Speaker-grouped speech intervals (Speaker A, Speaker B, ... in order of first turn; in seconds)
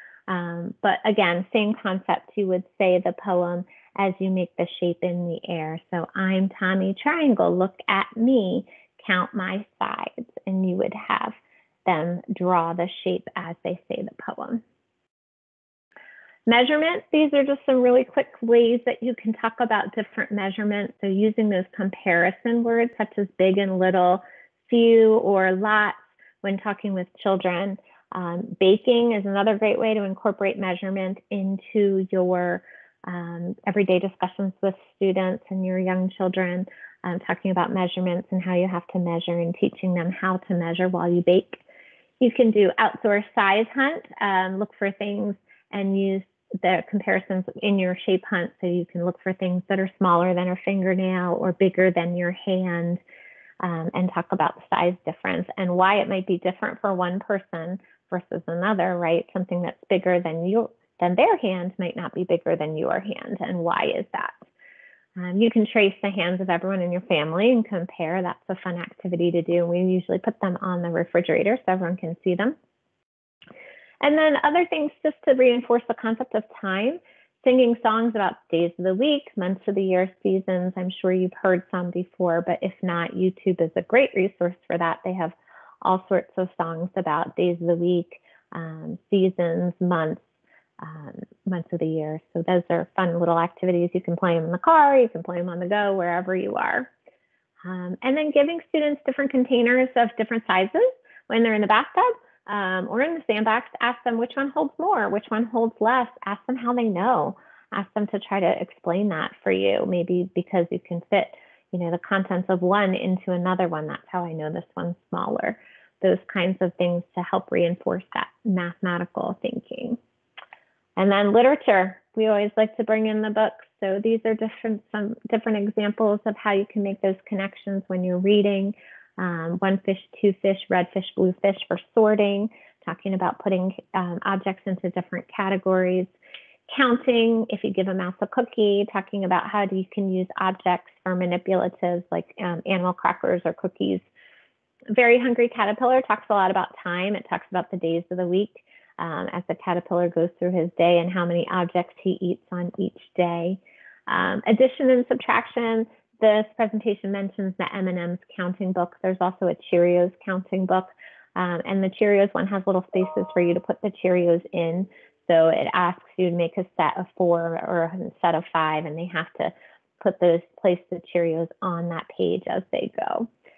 Speaker A: 0.3-14.6, 16.5-41.6, 42.2-53.0, 53.6-64.4, 65.2-72.5, 74.0-90.2, 90.8-96.9, 97.6-120.0, 121.0-136.1, 136.7-144.0, 144.9-173.3